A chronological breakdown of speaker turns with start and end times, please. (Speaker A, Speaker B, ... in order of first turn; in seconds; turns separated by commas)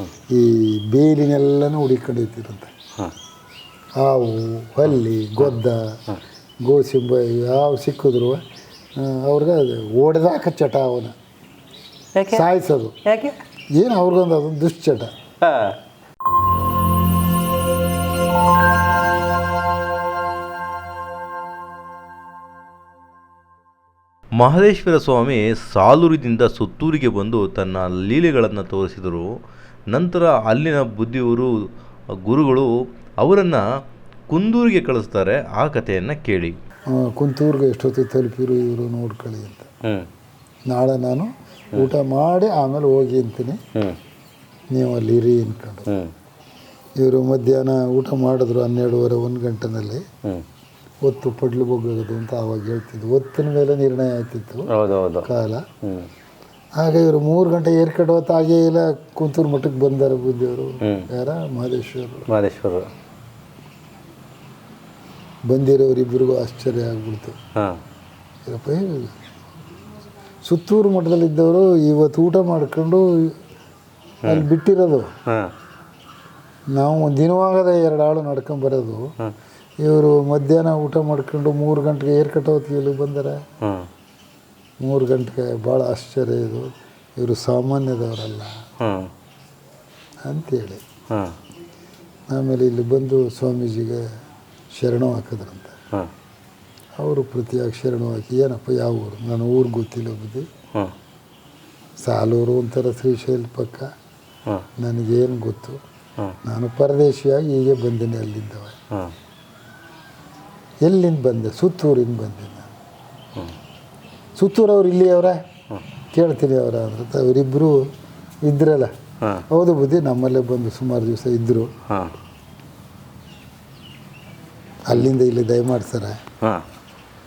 Speaker A: 0.3-2.7, Speaker A: 4.0-6.0, Speaker A: 6.6-8.4, Speaker A: 9.0-11.1, Speaker B: 12.2-12.4, Speaker A: 12.3-13.0, Speaker B: 13.0-13.4, Speaker A: 13.8-15.1, Speaker B: 15.4-15.8, Speaker C: 24.4-29.4, Speaker C: 29.9-31.7, Speaker C: 32.2-33.6, Speaker C: 34.3-36.6, Speaker A: 36.9-39.7, Speaker A: 40.7-43.6, Speaker A: 44.7-45.9, Speaker A: 47.0-50.0, Speaker A: 51.0-54.7, Speaker B: 54.7-55.3, Speaker A: 55.2-55.6, Speaker B: 55.8-56.1, Speaker A: 56.8-62.3, Speaker B: 60.8-61.1, Speaker B: 62.3-62.9, Speaker A: 65.5-67.4, Speaker A: 68.5-69.1, Speaker A: 70.4-73.3, Speaker A: 74.2-75.1, Speaker B: 75.3-75.5, Speaker A: 76.7-79.1, Speaker A: 79.8-83.4, Speaker B: 83.6-83.9, Speaker A: 84.8-88.6, Speaker B: 88.8-89.1, Speaker A: 90.2-90.8, Speaker A: 92.3-94.0, Speaker A: 94.7-95.7, Speaker A: 97.0-100.5, Speaker A: 102.0-103.9, Speaker A: 104.8-105.8, Speaker A: 106.4-108.8, Speaker A: 110.8-112.7, Speaker A: 114.4-115.4, Speaker A: 116.1-117.8, Speaker A: 118.5-118.9, Speaker A: 119.5-121.7, Speaker A: 124.9-126.2